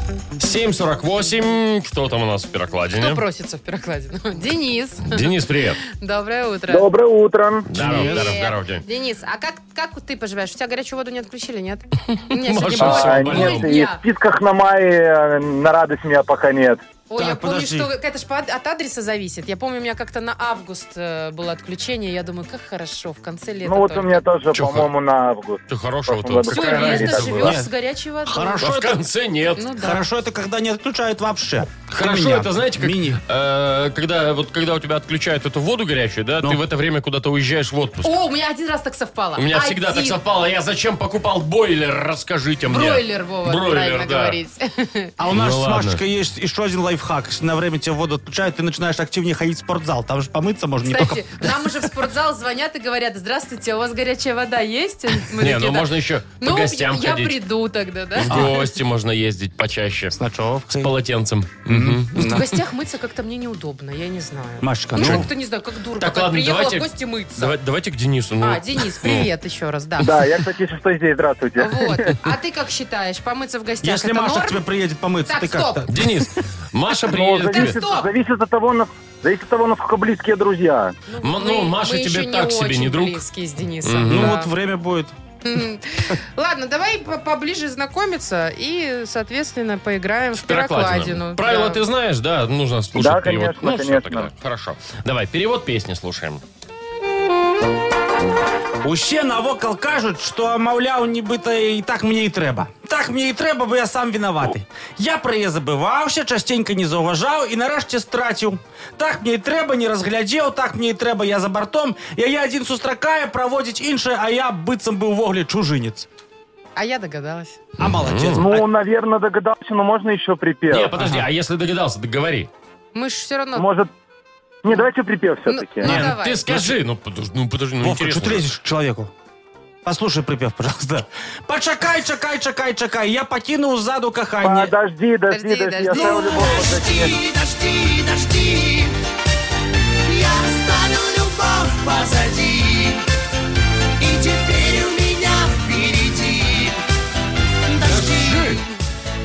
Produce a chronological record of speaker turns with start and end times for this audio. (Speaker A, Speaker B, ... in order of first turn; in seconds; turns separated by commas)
Speaker A: 0.4-3.2, Speaker B: 3.0-5.3, Speaker A: 5.1-5.8, Speaker B: 5.9-6.9, Speaker C: 6.7-7.7, Speaker A: 7.7-8.8, Speaker D: 7.8-8.4, Speaker B: 7.8-14.0, Speaker A: 12.3-13.7, Speaker C: 12.8-16.8, Speaker B: 17.1-24.2, Speaker D: 17.2-17.9, Speaker C: 23.6-27.5, Speaker A: 24.5-24.9, Speaker A: 25.7-27.6, Speaker B: 26.5-28.7, Speaker D: 27.3-27.7, Speaker D: 28.3-29.0, Speaker A: 28.6-29.6, Speaker B: 29.6-30.1, Speaker D: 29.8-33.2, Speaker A: 31.9-38.1, Speaker B: 38.0-40.2, Speaker A: 39.4-44.4, Speaker B: 42.7-45.1, Speaker D: 45.2-51.8, Speaker A: 45.3-46.0, Speaker B: 50.8-58.6, Speaker A: 55.4-57.4, Speaker A: 58.1-60.2, Speaker D: 58.3-58.5, Speaker D: 60.1-60.9, Speaker A: 60.8-62.4, Speaker D: 61.7-62.5, Speaker B: 62.1-67.6, Speaker D: 64.6-65.3, Speaker A: 65.0-65.3, Speaker A: 66.0-69.3, Speaker B: 68.4-70.1, Speaker C: 70.0-72.1, Speaker B: 71.6-74.6, Speaker D: 73.8-76.1, Speaker B: 75.3-75.9, Speaker A: 75.9-77.8, Speaker C: 77.1-80.9, Speaker B: 77.4-78.1, Speaker B: 81.1-84.5, Speaker A: 81.2-83.2, Speaker A: 83.8-84.4, Speaker D: 84.1-85.1, Speaker B: 85.4-91.8, Speaker A: 90.4-96.4, Speaker C: 93.0-94.3, Speaker D: 98.8-116.1, Speaker B: 116.8-117.6, Speaker A: 117.8-118.5, Speaker D: 117.8-118.7, Speaker C: 118.3-120.9, Speaker A: 120.7-122.5, Speaker D: 121.0-121.2, Speaker B: 122.9-123.7, Speaker C: 123.6-123.9, Speaker C: 124.6-125.9, Speaker B: 125.5-126.4, Speaker A: 125.8-128.5, Speaker D: 125.8-126.8, Speaker D: 127.8-129.1, Speaker D: 129.8-134.7, Speaker C: 134.4-137.2, Speaker B: 135.3-136.7, Speaker D: 136.0-136.2, Speaker E: 137.1-138.5, Speaker E: 140.2-142.9, Speaker E: 144.2-146.2, Speaker A: 147.9-148.6